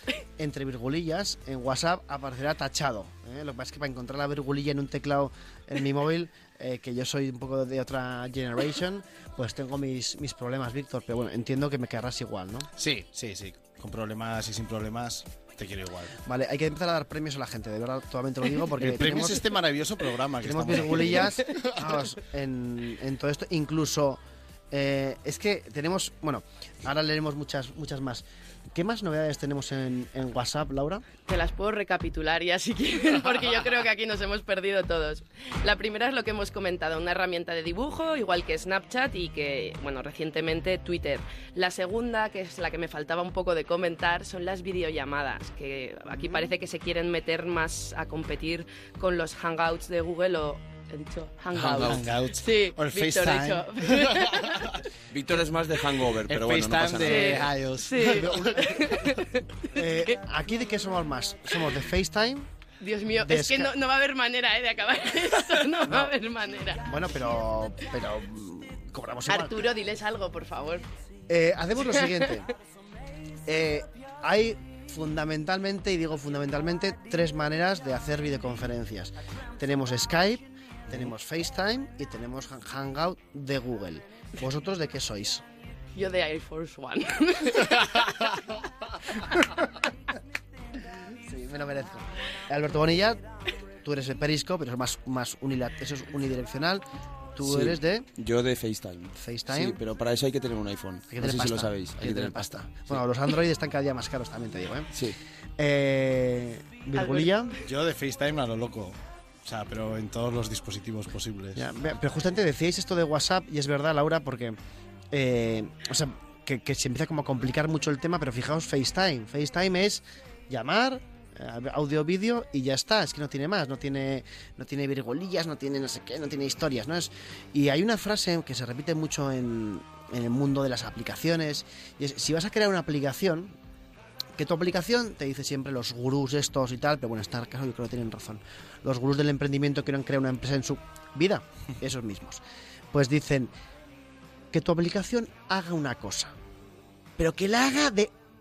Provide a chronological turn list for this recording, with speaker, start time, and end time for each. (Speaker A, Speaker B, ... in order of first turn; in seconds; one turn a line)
Speaker A: 0.4-12.7
Speaker B: 12.8-16.2
Speaker A: 16.2-19.5
Speaker B: 18.8-22.0
Speaker A: 20.4-24.2
Speaker A: 24.7-31.0
Speaker C: 31.3-54.8
Speaker A: 46.1-46.5
Speaker B: 51.5-54.8
Speaker D: 55.1-57.5
Speaker B: 56.3-59.2
Speaker C: 57.0-59.4
Speaker A: 58.2-58.5
Speaker A: 59.7-62.5
Speaker C: 62.8-66.8
Speaker A: 63.2-63.7
Speaker A: 65.8-66.1
Speaker A: 66.9-69.7
Speaker C: 69.3-70.9
Speaker A: 71.3-72.5
Speaker A: 73.5-85.4
Speaker C: 86.0-88.3
Speaker A: 91.2-93.2
Speaker A: 93.8-96.8
Speaker A: 97.3-98.1
Speaker D: 97.4-103.0
Speaker A: 99.2-99.8
Speaker A: 101.1-104.9
Speaker A: 105.6-107.6
Speaker C: 107.0-107.5
Speaker B: 107.7-111.6
Speaker A: 111.6-114.6
Speaker A: 115.1-133.5
Speaker A: 134.4-143.5
Speaker A: 144.5-146.3
Speaker A: 147.2-148.1